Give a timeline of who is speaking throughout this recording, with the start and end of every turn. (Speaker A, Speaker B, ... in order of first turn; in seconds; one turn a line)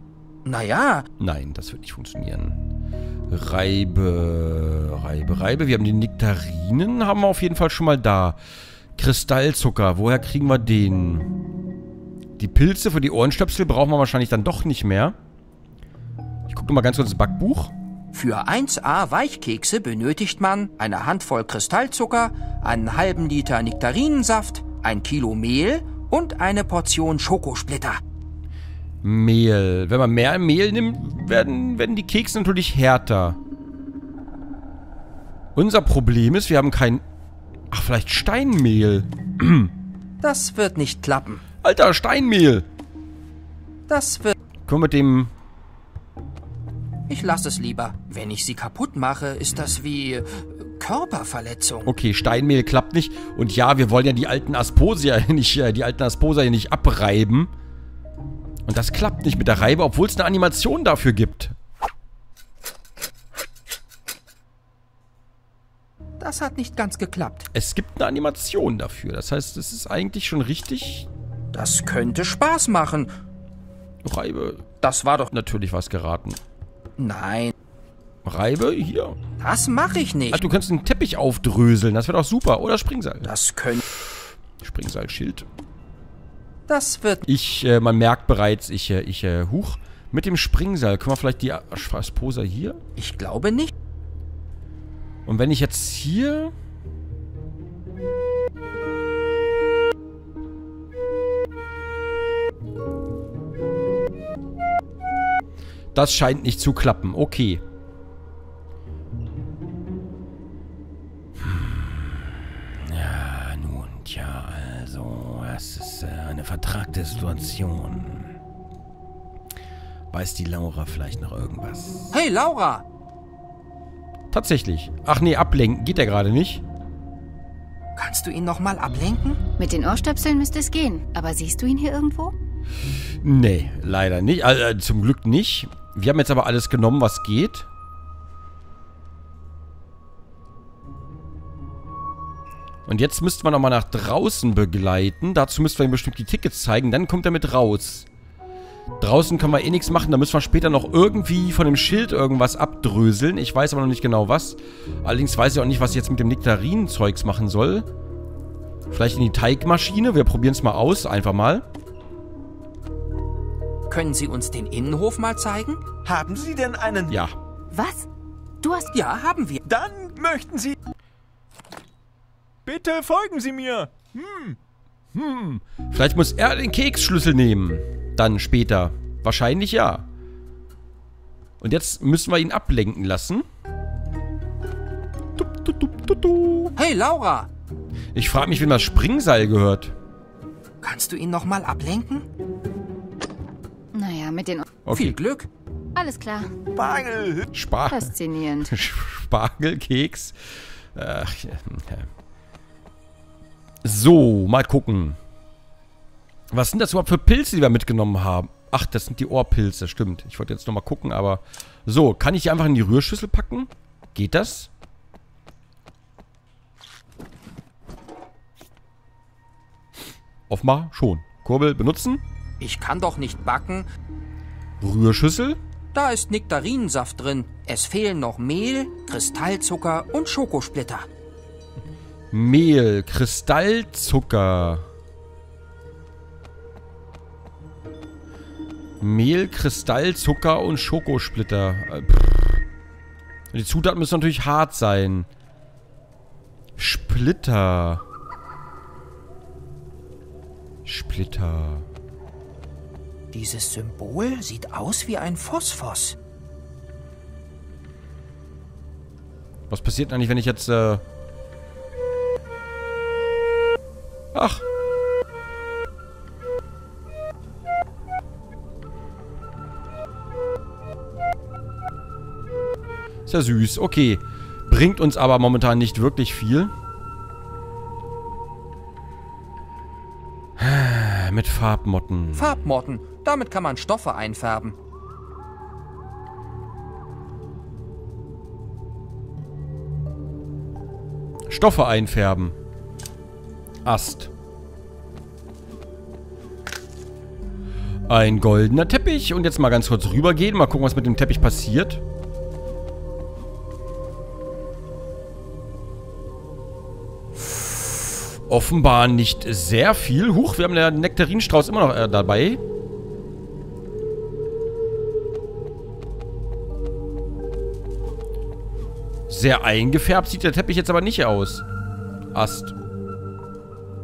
Speaker A: 0.5-1.1
Speaker B: 1.2-2.6
Speaker B: 3.3-8.4
Speaker B: 8.9-11.3
Speaker B: 12.4-15.2
Speaker B: 16.5-17.7
Speaker A: 18.1-28.0
Speaker B: 29.0-33.4
Speaker B: 35.5-37.0
Speaker B: 37.7-39.7
Speaker A: 40.2-41.4
Speaker B: 41.6-42.7
Speaker A: 43.9-44.3
Speaker B: 44.7-45.3
Speaker A: 47.1-51.9
Speaker B: 51.9-57.5
Speaker B: 58.7-61.6
Speaker A: 66.2-67.5
Speaker B: 67.5-71.1
Speaker A: 71.5-73.1
Speaker B: 74.0-74.7
Speaker A: 74.8-75.3
Speaker B: 75.3-76.4
Speaker A: 77.0-77.5
Speaker B: 78.2-79.2
Speaker A: 79.4-80.4
Speaker B: 80.3-83.3
Speaker A: 83.2-83.8
Speaker B: 84.6-85.5
Speaker A: 86.7-87.2
Speaker B: 87.2-92.8
Speaker A: 93.0-93.7
Speaker B: 95.2-96.5
Speaker B: 105.9-107.6
Speaker B: 111.4-118.3
Speaker B: 120.1-122.2
Speaker A: 122.1-122.8
Speaker B: 124.3-126.6
Speaker A: 128.0-129.4
Speaker C: 129.6-132.3
Speaker B: 133.2-137.7
Speaker B: 142.9-148.1
Speaker B: 149.0-157.9
Speaker B: 158.9-161.7
Speaker A: 163.9-165.9
Speaker D: 166.0-167.2
Speaker B: 167.1-167.4
Speaker C: 167.7-168.1
Speaker C: 168.6-168.9
Speaker A: 168.9-169.6
Speaker D: 169.6-170.8
Speaker D: 172.7-174.6
Speaker B: 175.2-180.1
Speaker B: 181.6-183.5
Speaker B: 185.3-186.7
Speaker A: 186.8-187.5
Speaker B: 188.2-189.9
Speaker A: 190.8-192.3
Speaker C: 193.9-194.8
Speaker B: 194.8-195.2
Speaker A: 194.9-195.5
Speaker C: 196.0-196.6
Speaker D: 196.7-197.5
Speaker B: 197.5-202.1
Speaker C: 197.9-198.7
Speaker B: 203.8-205.2
Speaker B: 206.5-214.7
Speaker B: 220.5-222.2
Speaker A: 222.6-223.9
Speaker B: 224.8-225.6
Speaker A: 225.9-231.1
Speaker B: 232.3-234.9
Speaker B: 239.0-242.7
Speaker B: 243.5-245.3
Speaker B: 246.8-248.0
Speaker B: 250.8-251.9
Speaker A: 253.3-256.1
Speaker B: 259.7-261.0
Speaker B: 264.3-264.6
Speaker B: 273.3-276.7
Speaker B: 280.6-282.6
Speaker A: 282.4-284.8
Speaker B: 291.5-292.5
Speaker B: 293.9-294.3
Speaker B: 298.1-302.0
Speaker B: 308.5-312.6
Speaker B: 319.3-321.6
Speaker B: 322.3-322.7